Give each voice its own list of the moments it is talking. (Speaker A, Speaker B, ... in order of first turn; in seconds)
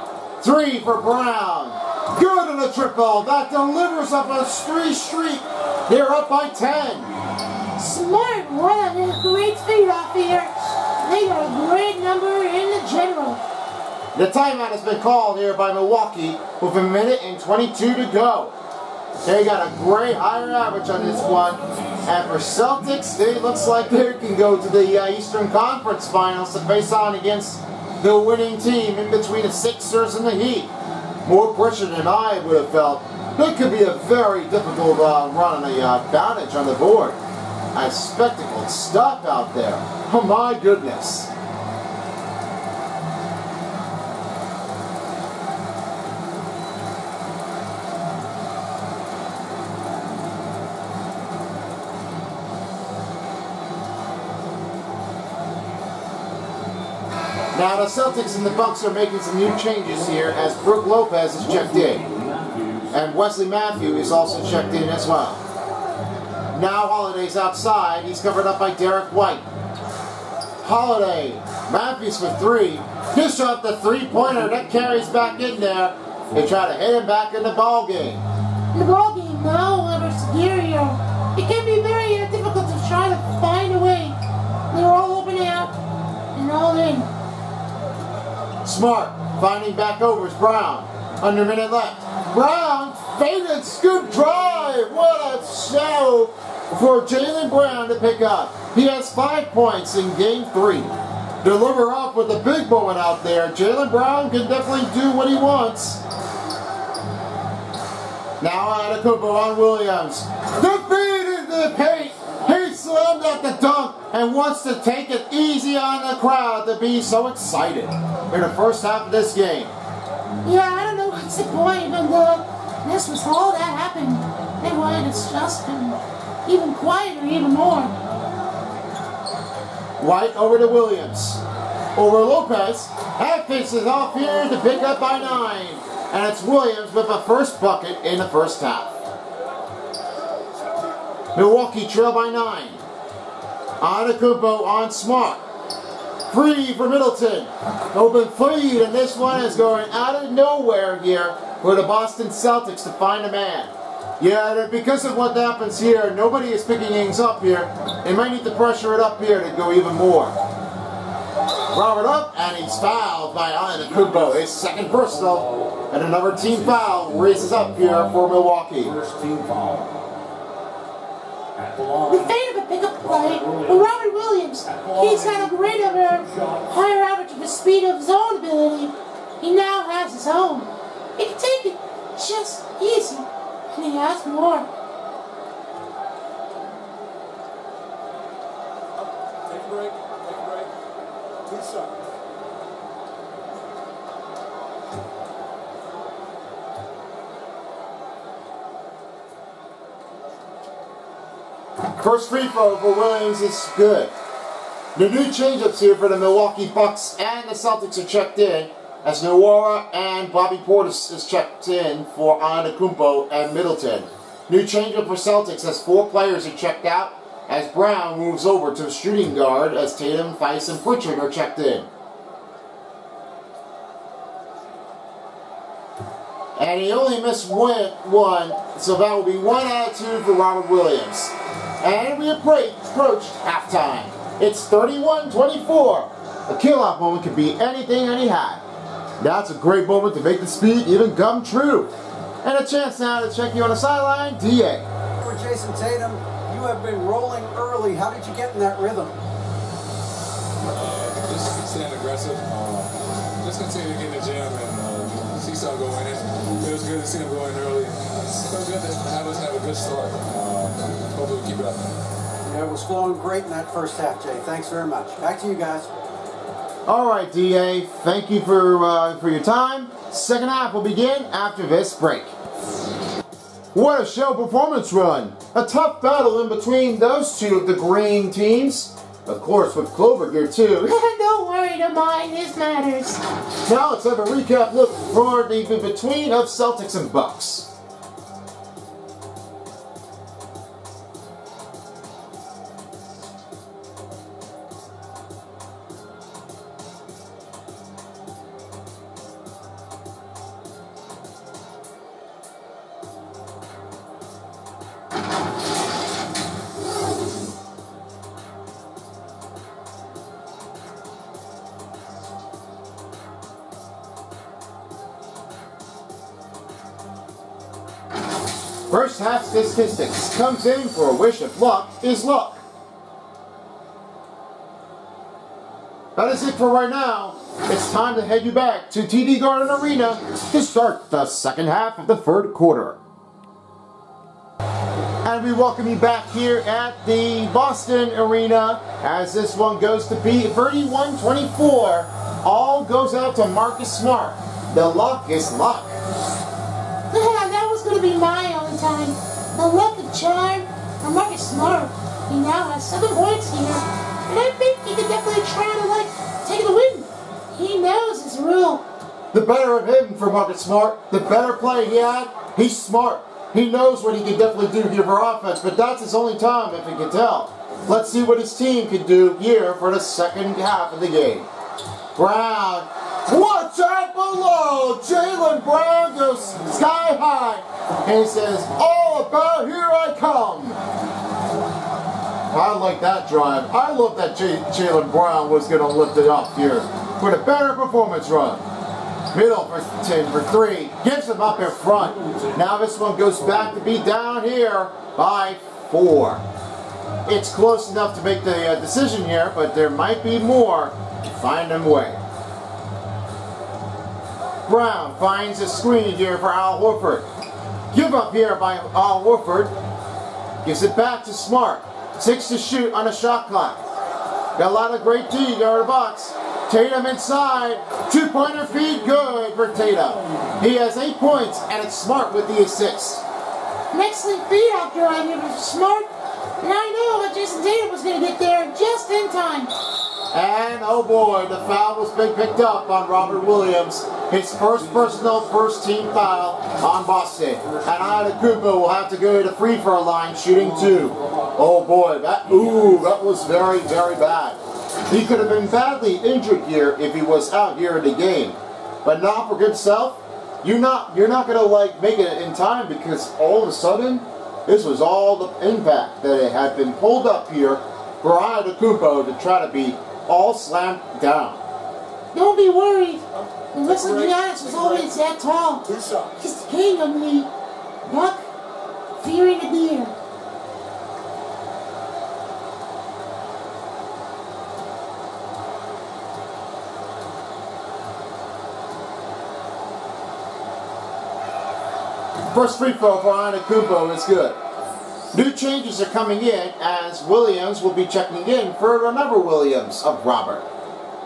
Speaker A: 0.4-7.1, 14.1-18.5, 19.2-30.7, 31.2-37.2, 37.7-41.3, 57.5-62.0, 62.9-65.4, 66.5-69.5, 70.6-78.2, 88.6-106.0, 108.4-119.7, 130.0-131.4, 131.9-139.0, 141.3-142.8, 143.8-145.4, 146.3-160.3, 161.7-168.9, 202.0-204.1, 204.9-221.9, 226.6-238.6, 239.2-241.9, 242.4-244.9, 266.9-272.3, 273.7-280.9, 283.6-287.7, 318.9-322.6, 326.1-333.0, 335.2-345.9, 359.3-371.5, 372.1-380.8, 382.5-388.6, 389.3-396.4, 397.2-402.2, 404.7-407.2, 407.9-409.7, 410.6-413.8, 414.6-423.2, 430.3-461.6, 482.5-484.6, 485.3-490.6
Speaker B: 7.8-13.4, 78.7-84.2, 84.7-85.7, 86.3-87.1, 120.4-127.9, 172.1-184.7, 280.8-283.2, 347.1-358.8, 423.9-426.1, 426.6-429.7, 462.3-463.2, 463.7-467.5, 468.1-468.4, 469.2-470.1
Speaker C: 21.3-22.4, 61.4-63.0, 163.8-168.2, 168.8-170.0, 171.5-172.4, 173.0-173.9, 174.6-176.8, 392.2-392.5, 435.0-435.4, 437.6-437.9, 440.5-441.5, 442.6-443.8
Speaker D: 189.0-190.7, 191.5-191.9, 250.7-261.9, 463.9-465.0, 465.9-466.3
Speaker E: 245.2-249.2, 262.4-265.9